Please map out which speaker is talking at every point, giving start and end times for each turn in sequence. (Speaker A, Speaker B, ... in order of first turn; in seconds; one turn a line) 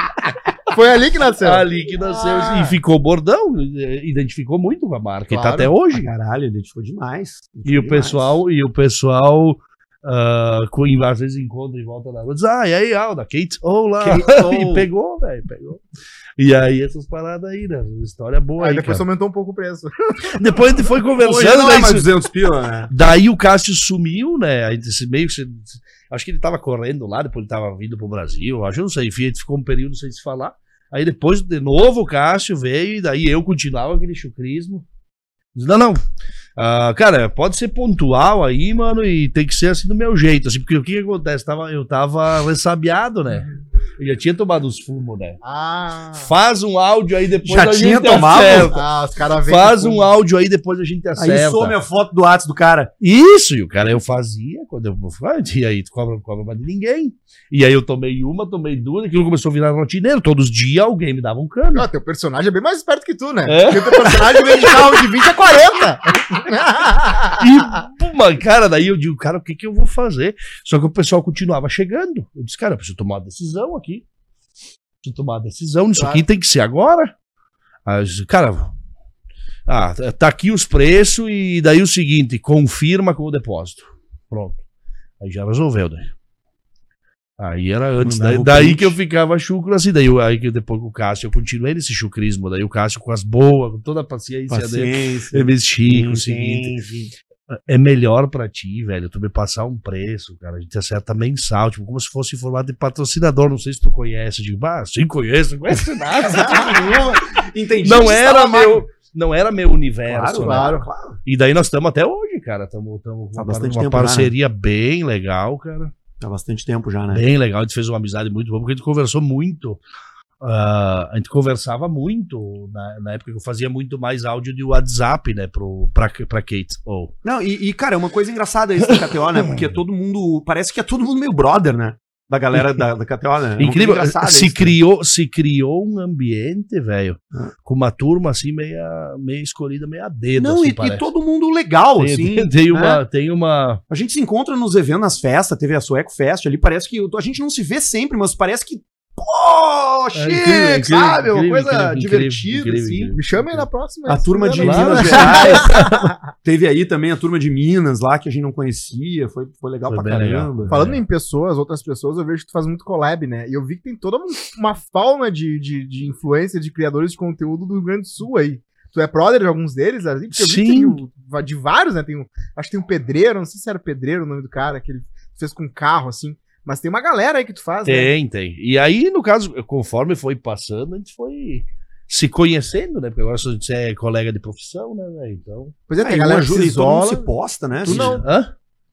Speaker A: 0.7-2.8
Speaker B: 1.4-6.0
Speaker A: 5.3-5.7
Speaker C: 5.9-8.4
Speaker B: 7.7-15.8
Speaker C: 14.0-14.9
Speaker B: 16.4-19.0
Speaker A: 18.6-20.4
Speaker B: 20.3-22.1
Speaker C: 21.2-22.9
Speaker B: 22.9-34.9
Speaker B: 35.5-45.4
Speaker A: 45.4-46.3
Speaker B: 46.1-51.8
Speaker C: 47.4-48.8
Speaker A: 48.7-50.1
Speaker C: 51.2-52.9
Speaker B: 53.0-61.9
Speaker A: 61.7-67.5
Speaker B: 63.5-65.1
Speaker B: 67.2-74.0
Speaker B: 75.0-77.1
Speaker A: 76.0-76.2
Speaker B: 77.9-78.7
Speaker B: 79.7-84.6
Speaker B: 85.2-86.1
Speaker B: 87.4-96.8
Speaker C: 88.0-89.0
Speaker C: 94.5-97.1
Speaker B: 97.5-107.3
Speaker C: 106.2-108.9
Speaker B: 107.8-115.9
Speaker C: 110.1-111.2
Speaker A: 110.4-110.8
Speaker C: 113.4-114.3
Speaker C: 116.2-117.2
Speaker B: 117.1-119.8
Speaker B: 120.4-127.1
Speaker C: 127.2-134.8
Speaker B: 133.6-141.0
Speaker C: 140.4-143.0
Speaker B: 142.0-143.8
Speaker C: 143.9-153.2
Speaker B: 150.2-153.7
Speaker A: 153.2-156.2
Speaker C: 154.1-155.7
Speaker B: 154.6-156.2
Speaker C: 156.4-160.8
Speaker B: 159.9-161.0
Speaker A: 160.7-178.1
Speaker B: 170.3-171.0
Speaker B: 177.8-185.8
Speaker A: 185.9-187.3
Speaker C: 186.0-188.2
Speaker A: 187.8-188.3
Speaker B: 187.9-188.5